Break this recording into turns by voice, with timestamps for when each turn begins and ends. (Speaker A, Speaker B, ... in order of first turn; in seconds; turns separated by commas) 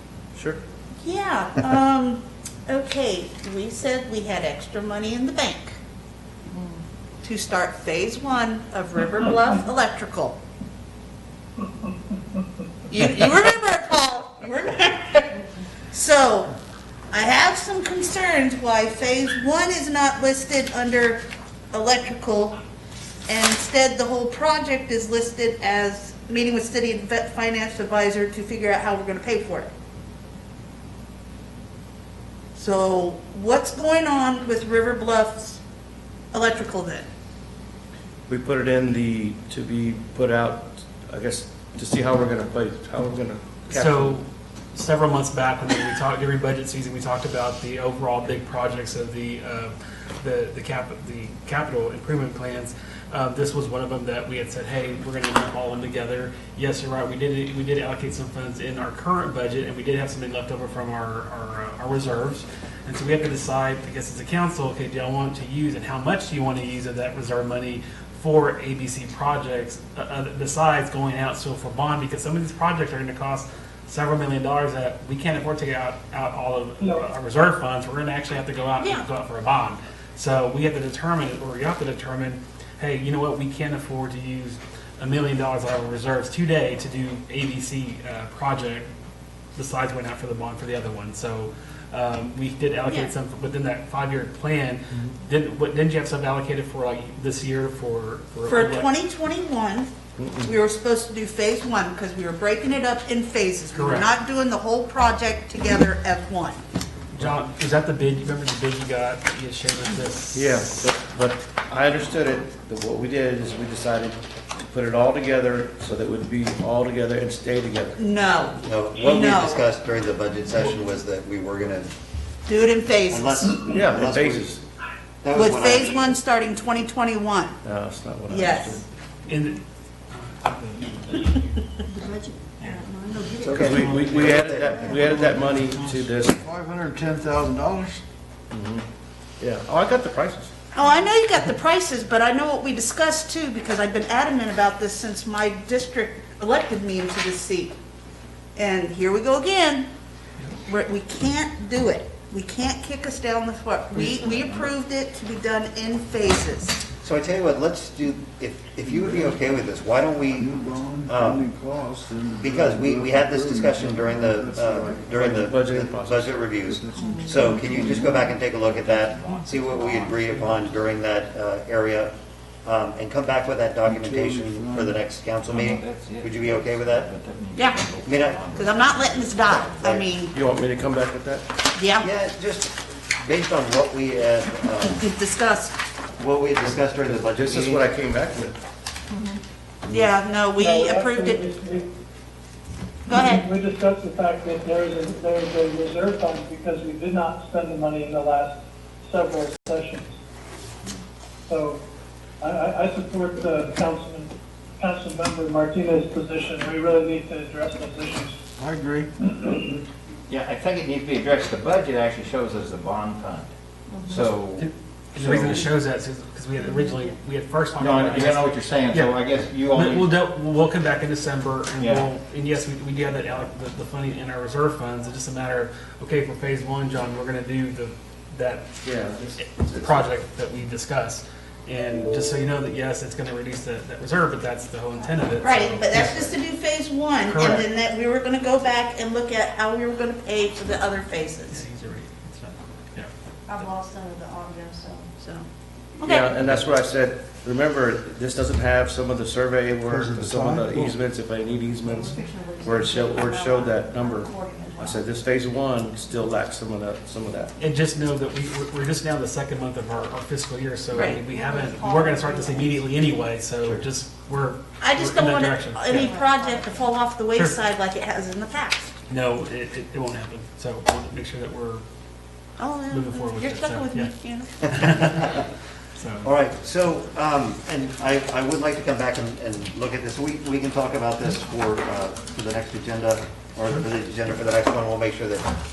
Speaker A: 1.0-5.8, Speaker A: 7.2-10.4, Speaker A: 12.9-15.4, Speaker A: 15.9-16.5, Speaker A: 17.1-21.2, Speaker A: 21.7-22.6, Speaker A: 23.3-29.7, Speaker A: 32.5-35.6, Speaker A: 36.3-37.1, Speaker B: 38.3-44.1, Speaker C: 43.7-88.9, Speaker D: 76.8-77.1, Speaker A: 78.8-79.1, Speaker C: 89.5-98.9, Speaker A: 92.9-93.1, Speaker A: 98.5-99.9, Speaker B: 100.2-100.5, Speaker A: 100.4-106.6, Speaker C: 103.7-104.1, Speaker C: 107.1-110.8, Speaker B: 110.3-118.0, Speaker A: 118.0-119.6, Speaker E: 118.6-121.9, Speaker C: 120.5-120.8, Speaker A: 122.5-123.6, Speaker E: 123.1-124.5, Speaker B: 123.7-124.6, Speaker E: 125.2-126.2, Speaker A: 125.3-127.6, Speaker B: 127.6-128.8, Speaker A: 128.3-128.8, Speaker C: 129.2-131.7, Speaker F: 131.9-133.7, Speaker E: 133.4-135.0, Speaker B: 133.5-136.3, Speaker C: 133.7-134.5, Speaker C: 135.0-136.0, Speaker G: 136.2-138.0, Speaker B: 138.5-138.8, Speaker B: 139.4-140.5, Speaker A: 140.7-147.7, Speaker A: 148.6-149.9, Speaker A: 150.7-156.8, Speaker E: 157.0-160.5, Speaker G: 158.8-159.4, Speaker G: 160.3-166.0, Speaker E: 161.1-161.4, Speaker E: 162.4-172.1, Speaker B: 165.1-166.3, Speaker G: 166.5-168.5, Speaker F: 166.9-167.6, Speaker H: 168.5-170.8, Speaker E: 172.6-177.1, Speaker G: 173.8-175.0, Speaker H: 175.4-179.9, Speaker E: 178.0-178.4, Speaker A: 178.5-180.3, Speaker B: 180.3-181.4, Speaker A: 181.8-182.1, Speaker E: 182.0-185.0, Speaker A: 184.8-185.7, Speaker E: 186.2-187.9, Speaker B: 187.1-188.5, Speaker F: 189.1-189.4, Speaker A: 189.8-191.5, Speaker D: 190.6-191.9, Speaker A: 193.1-193.4, Speaker D: 193.1-200.1, Speaker D: 201.5-201.8, Speaker D: 202.4-208.4, Speaker G: 208.6-209.1, Speaker D: 209.2-209.6, Speaker H: 210.3-213.5, Speaker F: 213.9-214.2, Speaker H: 214.1-215.6, Speaker C: 214.6-219.2, Speaker F: 216.7-217.1, Speaker H: 217.8-220.1, Speaker C: 219.7-228.7, Speaker H: 221.8-222.1, Speaker B: 228.8-229.4, Speaker C: 229.4-236.4, Speaker A: 235.4-241.6, Speaker C: 237.2-237.7, Speaker C: 241.5-243.7, Speaker F: 243.5-245.1, Speaker A: 245.2-245.4, Speaker A: 246.0-246.3, Speaker B: 246.0-257.5, Speaker G: 249.9-250.9, Speaker F: 251.8-255.2, Speaker C: 257.6-266.1, Speaker A: 260.9-261.2, Speaker F: 261.2-262.8, Speaker A: 264.8-268.9, Speaker F: 265.9-267.0, Speaker C: 269.1-271.8, Speaker A: 272.6-274.5, Speaker C: 272.9-274.1, Speaker E: 274.6-275.4, Speaker C: 274.6-276.2, Speaker E: 276.2-285.5